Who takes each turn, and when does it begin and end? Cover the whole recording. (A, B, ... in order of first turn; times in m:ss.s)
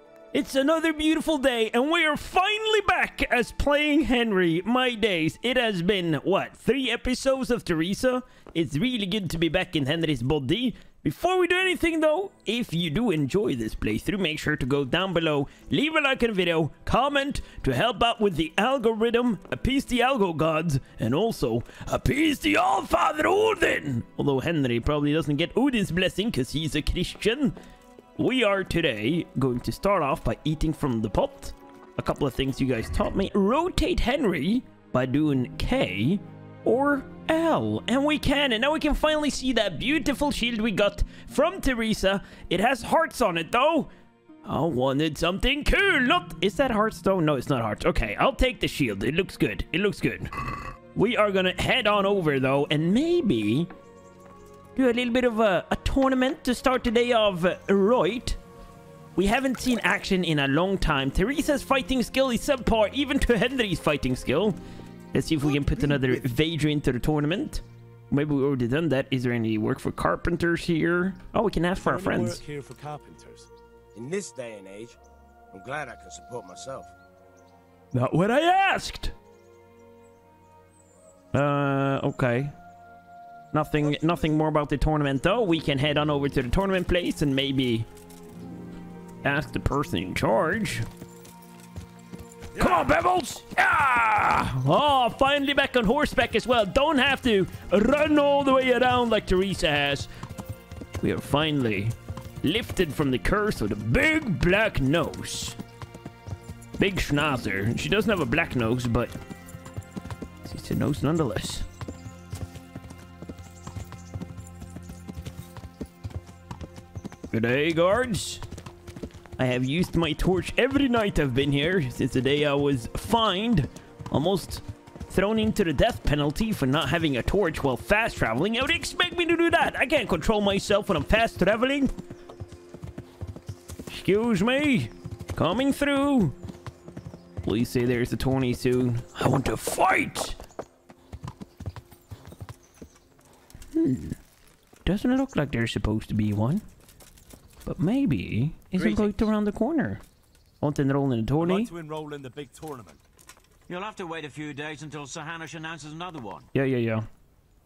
0:00.3-0:27.6 A
0:28.2-0:43.9 A
0:44.5-0:50.3 A
0:51.0-0:53.7 A
0:54.8-0:58.4 A
0:59.2-1:04.6 A
1:05.1-1:12.4 A
1:11.8-1:13.5 B
1:14.0-1:15.0 C
1:15.5-1:16.9 C
1:17.9-1:19.1 A
1:21.3-1:22.5 A
1:23.5-1:27.9 A
1:29.2-1:30.9 A
1:32.6-1:40.1 A
1:41.0-1:45.6 A
1:46.8-1:49.1 A
1:50.4-1:51.7 A
1:57.3-1:58.4 A
1:59.4-2:11.9 A
2:13.9-2:16.4 A
2:17.4-2:20.4 A
2:23.8-2:24.2 A
2:24.8-2:26.6 A
2:27.7-2:30.0 A
2:28.8-2:29.2 D
2:30.6-2:31.7 A
2:31.4-2:33.0 B
2:33.7-2:36.5 D
2:36.5-2:37.1 A